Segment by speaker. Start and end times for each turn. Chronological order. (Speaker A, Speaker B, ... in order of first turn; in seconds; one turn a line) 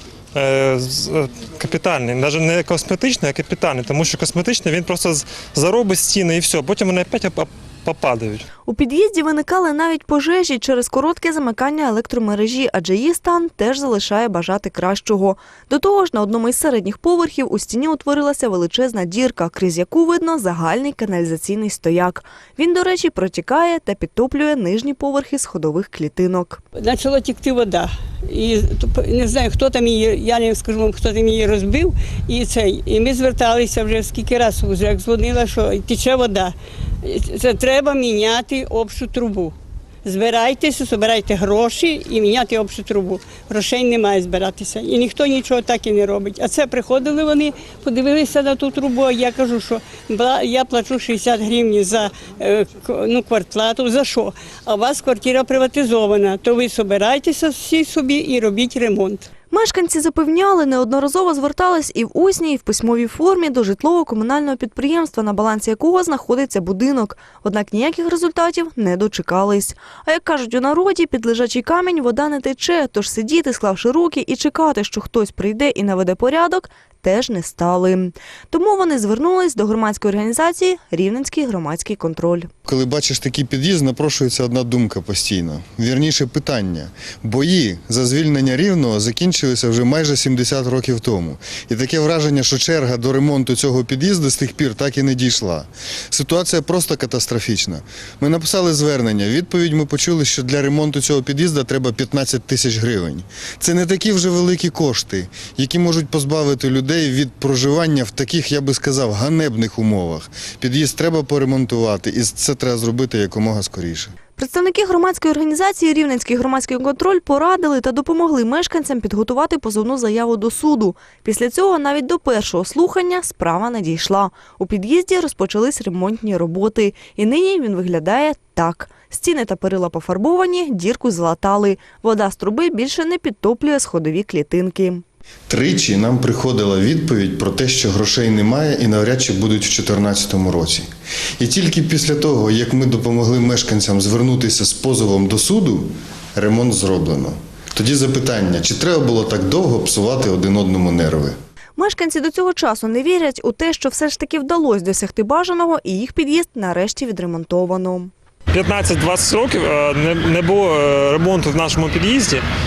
Speaker A: 0.3-8.4
Speaker B: 8.7-26.6
Speaker C: 26.8-59.3
Speaker B: 59.5-82.5
Speaker D: 82.7-114.1
Speaker B: 114.3-135.0
Speaker D: 135.5-140.9
Speaker D: 141.4-151.3
Speaker B: 151.8-158.1
Speaker A: 158.5-162.4